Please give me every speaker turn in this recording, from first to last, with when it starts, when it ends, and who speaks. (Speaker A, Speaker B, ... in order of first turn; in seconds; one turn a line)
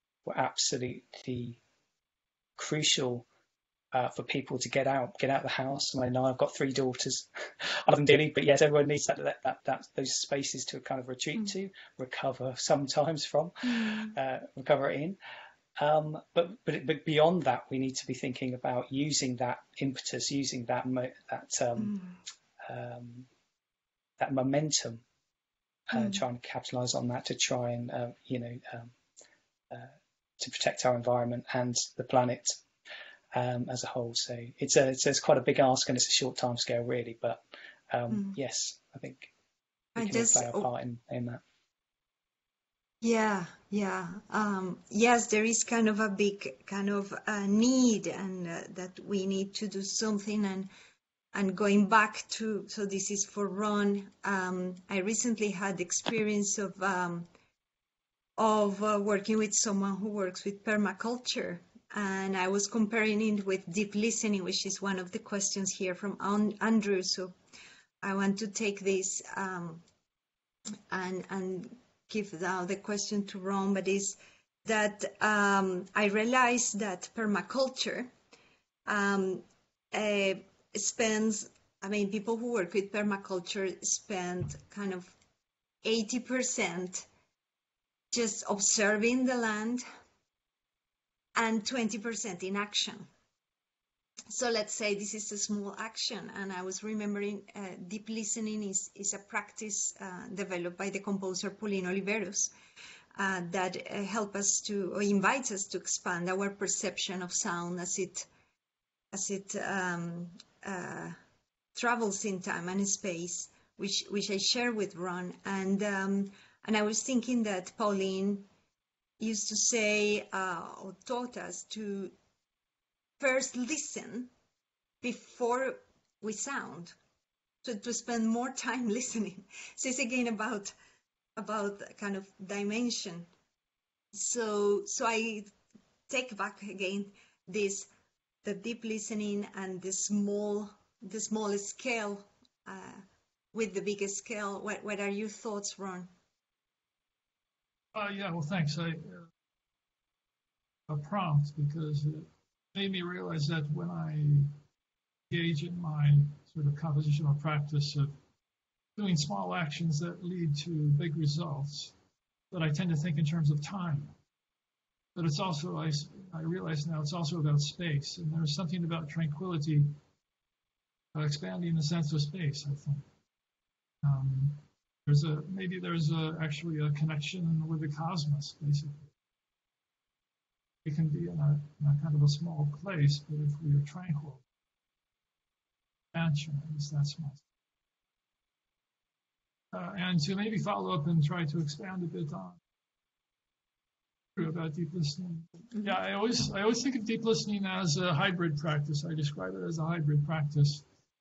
Speaker A: 0.3-1.6
Speaker A: 2.6-3.3
Speaker A: 3.9-15.2
Speaker B: 13.7-14.2
Speaker A: 15.8-21.9
Speaker B: 21.8-22.2
Speaker A: 22.7-23.3
Speaker A: 24.2-25.0
Speaker A: 25.9-28.9
Speaker B: 25.9-26.2
Speaker A: 29.7-32.6
Speaker A: 33.3-39.3
Speaker B: 38.1-38.4
Speaker B: 40.0-40.7
Speaker A: 40.0-41.4
Speaker B: 43.0-50.7
Speaker B: 51.3-57.3
Speaker B: 58.4-67.3
Speaker B: 68.0-69.8
Speaker B: 70.9-78.1
Speaker B: 78.9-85.2
Speaker B: 85.8-87.1
Speaker B: 88.1-89.8
Speaker B: 91.4-93.1
Speaker B: 94.3-102.5
Speaker B: 103.2-108.3
Speaker B: 109.1-111.2
Speaker B: 111.8-118.5
Speaker B: 119.2-122.2
Speaker B: 123.2-124.3
Speaker B: 125.0-127.0
Speaker B: 127.6-130.7
Speaker B: 131.4-133.3
Speaker B: 134.1-135.5
Speaker B: 136.1-137.9
Speaker B: 138.4-146.1
Speaker C: 147.9-149.3
Speaker C: 150.9-154.5
Speaker C: 155.3-158.1
Speaker C: 159.0-161.9
Speaker C: 162.5-164.1
Speaker C: 165.2-170.0
Speaker C: 171.1-173.1
Speaker C: 174.0-179.1
Speaker C: 180.8-184.4
Speaker C: 186.1-187.4
Speaker C: 189.7-192.6
Speaker C: 194.4-200.8